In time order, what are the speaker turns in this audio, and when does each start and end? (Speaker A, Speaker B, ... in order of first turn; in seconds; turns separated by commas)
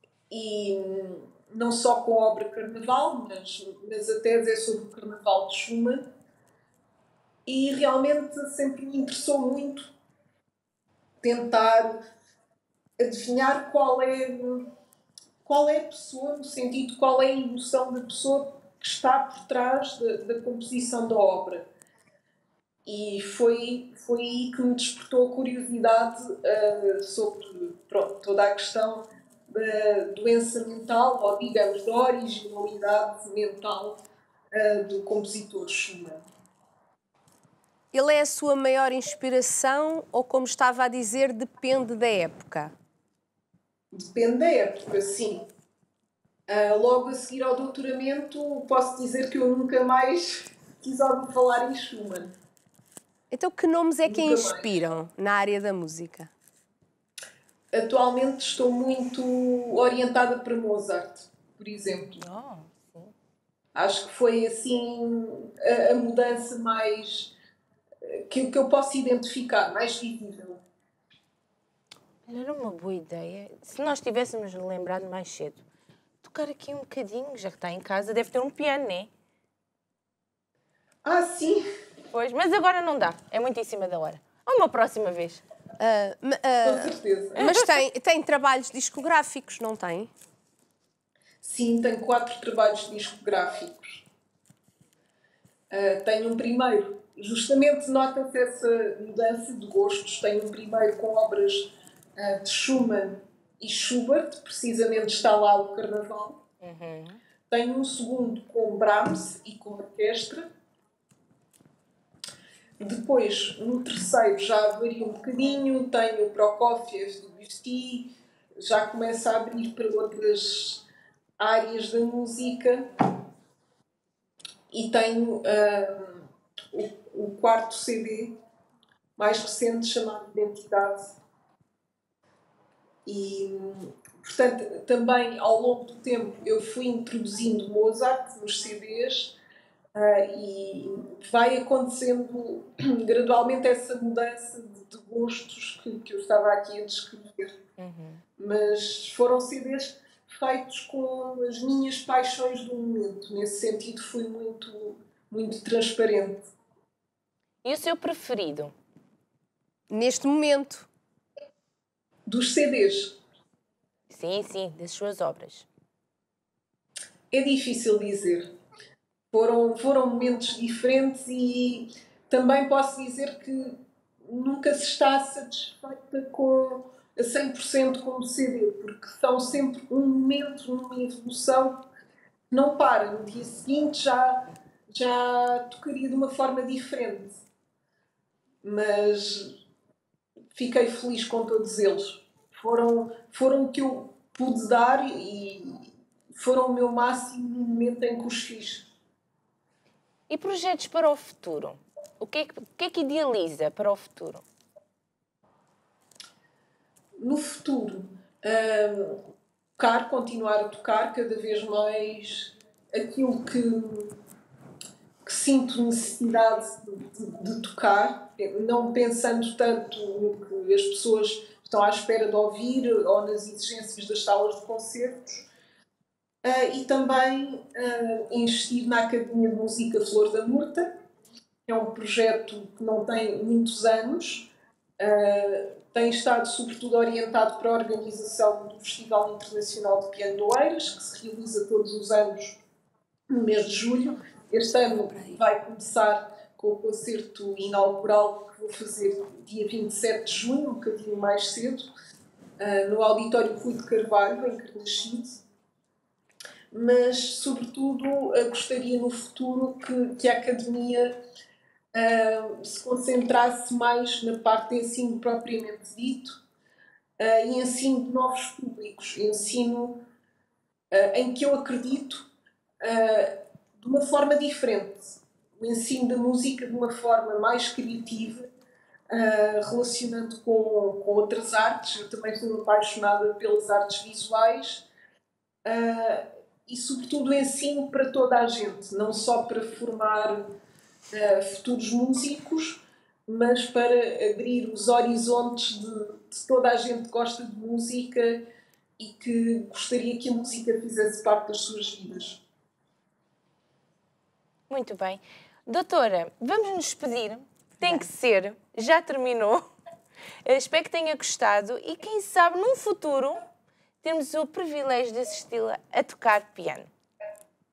Speaker A: 0.3-6.0, Speaker A: 7.5-9.9, Speaker A: 11.2-11.9, Speaker A: 13.0-14.7, Speaker A: 15.4-21.7, Speaker A: 22.9-34.0, Speaker A: 34.5-36.2, Speaker B: 37.9-42.7, Speaker A: 43.9-45.4, Speaker A: 46.5-52.3, Speaker B: 53.3-56.3, Speaker A: 54.0-54.8, Speaker A: 57.7-62.2, Speaker C: 62.2-63.1, Speaker A: 63.7-67.3, Speaker A: 68.0-70.6, Speaker C: 72.2-75.6, Speaker C: 76.2-79.1, Speaker A: 81.0-81.6, Speaker C: 82.1-85.4, Speaker B: 85.8-90.1, Speaker A: 86.6-87.5, Speaker C: 87.4-87.7, Speaker A: 91.4-94.0, Speaker A: 95.7-106.4, Speaker C: 106.6-107.2, Speaker A: 107.5-110.5, Speaker A: 112.8-120.8, Speaker A: 121.4-122.8, Speaker A: 124.7-128.3, Speaker A: 129.2-131.2, Speaker A: 133.1-139.4, Speaker A: 139.9-147.5, Speaker C: 147.8-148.2, Speaker A: 148.4-156.5, Speaker C: 157.6-158.7, Speaker B: 159.9-160.9, Speaker A: 162.3-163.1, Speaker C: 164.1-165.7, Speaker A: 167.3-168.5, Speaker A: 169.3-181.8, Speaker A: 182.5-187.4, Speaker A: 188.6-189.5, Speaker A: 190.5-198.8, Speaker C: 200.3-204.4, Speaker A: 207.2-209.2, Speaker A: 209.8-214.1, Speaker A: 215.2-225.4, Speaker A: 226.4-230.9, Speaker A: 231.7-242.6, Speaker A: 243.3-251.9, Speaker A: 252.6-255.4, Speaker A: 256.7-261.1, Speaker A: 261.9-266.4, Speaker A: 267.2-270.0, Speaker A: 270.9-272.3, Speaker A: 272.8-278.4, Speaker A: 279.1-284.9, Speaker A: 285.6-290.4, Speaker A: 291.1-298.4, Speaker A: 299.0-302.4, Speaker C: 304.7-309.7, Speaker C: 310.4-313.4, Speaker C: 314.0-316.9